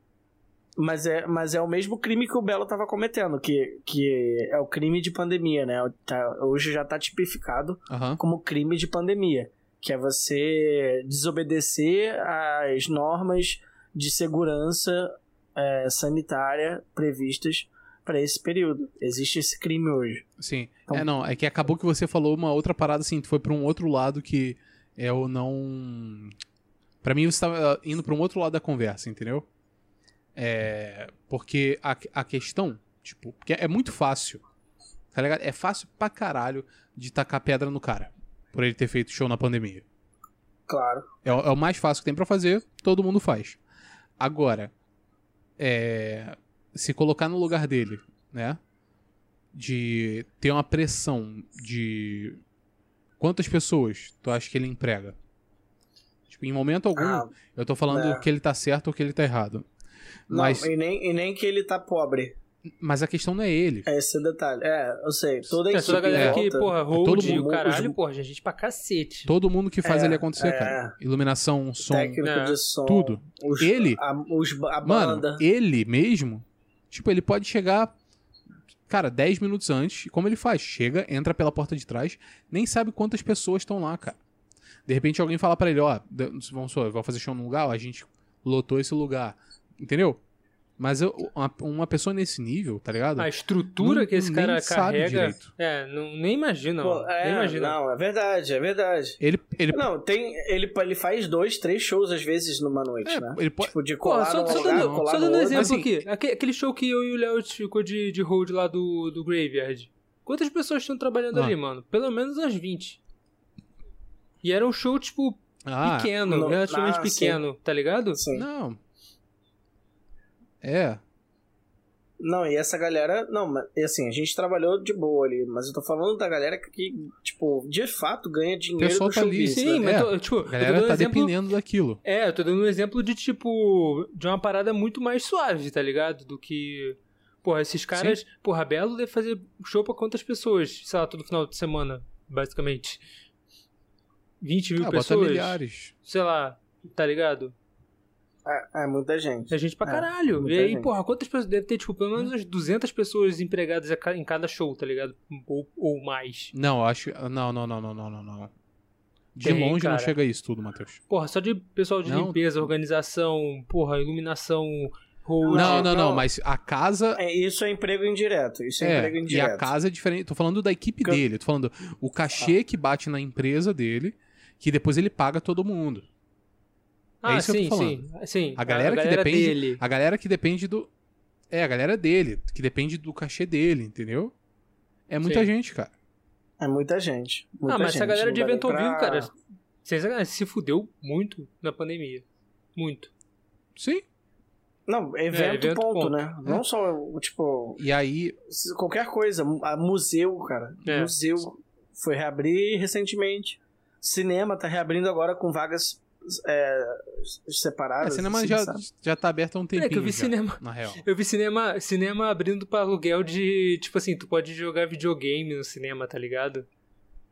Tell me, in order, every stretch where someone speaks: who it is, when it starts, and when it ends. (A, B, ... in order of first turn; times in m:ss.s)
0:00.8-0:20.2 A
0:07.9-0:08.2 B
0:20.4-0:26.3 B
0:27.0-0:29.4 B
0:30.3-0:34.4 B
0:35.1-0:39.8 B
0:40.7-0:41.0 A
0:41.2-0:43.6 B
0:44.2-0:44.7 B
0:45.6-0:48.6 B
0:49.5-0:52.4 B
0:53.2-0:55.2 B
0:56.3-0:59.7 B
0:57.0-0:57.3 A
0:57.9-0:58.2 A
1:00.3-1:00.7 B
1:00.3-1:02.3 A
1:02.8-1:03.9 B
1:03.8-1:07.9 A
1:05.7-1:09.3 C
1:05.8-1:07.9 B
1:09.2-1:12.2 B
1:09.8-1:10.9 A
1:11.8-1:15.4 A
1:12.2-1:12.6 C
1:12.8-1:14.0 B
1:14.8-1:17.9 B
1:18.9-1:24.2 B
1:24.8-1:30.2 B
1:30.8-1:33.3 B
1:33.2-1:37.8 C
1:33.8-1:35.5 B
1:36.8-1:39.2 A
1:39.2-1:39.8 B
1:39.7-1:45.7 A
1:43.0-1:43.7 B
1:44.0-1:53.0 C
1:44.5-1:45.9 B
1:54.4-1:58.2 C
1:55.6-1:56.1 B
1:56.2-1:57.4 A
1:58.1-1:58.4 A
1:58.3-1:58.8 B
2:00.6-2:01.0 B
2:02.2-2:09.8 A
2:08.8-2:12.0 B
2:09.4-2:11.3 C
2:12.0-2:23.0 C
2:24.4-2:27.5 C
2:24.8-2:25.9 B
2:28.4-2:30.9 A
2:29.5-2:36.5 C
2:36.5-2:38.5 B
2:39.3-2:41.0 B
2:39.4-2:40.1 C
2:41.1-2:45.9 C
2:42.0-2:42.4 B
2:45.4-2:46.2 A
2:45.5-2:47.2 B
2:47.2-2:49.7 A
2:48.8-2:56.0 B
2:57.2-2:59.8 C
2:57.2-2:58.0 B
2:58.6-3:00.9 B
3:01.5-3:04.3 B
3:05.1-3:05.9 B
3:05.2-3:05.5 C
3:06.6-3:09.3 A
3:07.7-3:09.3 C
3:09.8-3:12.2 C
3:12.8-3:13.1 C
3:13.8-3:14.0 B
3:14.9-3:17.8 A
3:15.3-3:16.2 C
3:17.8-3:18.4 B
3:18.5-3:28.8 A
3:20.8-3:21.1 C
3:28.0-3:31.0 B
3:29.8-3:36.6 C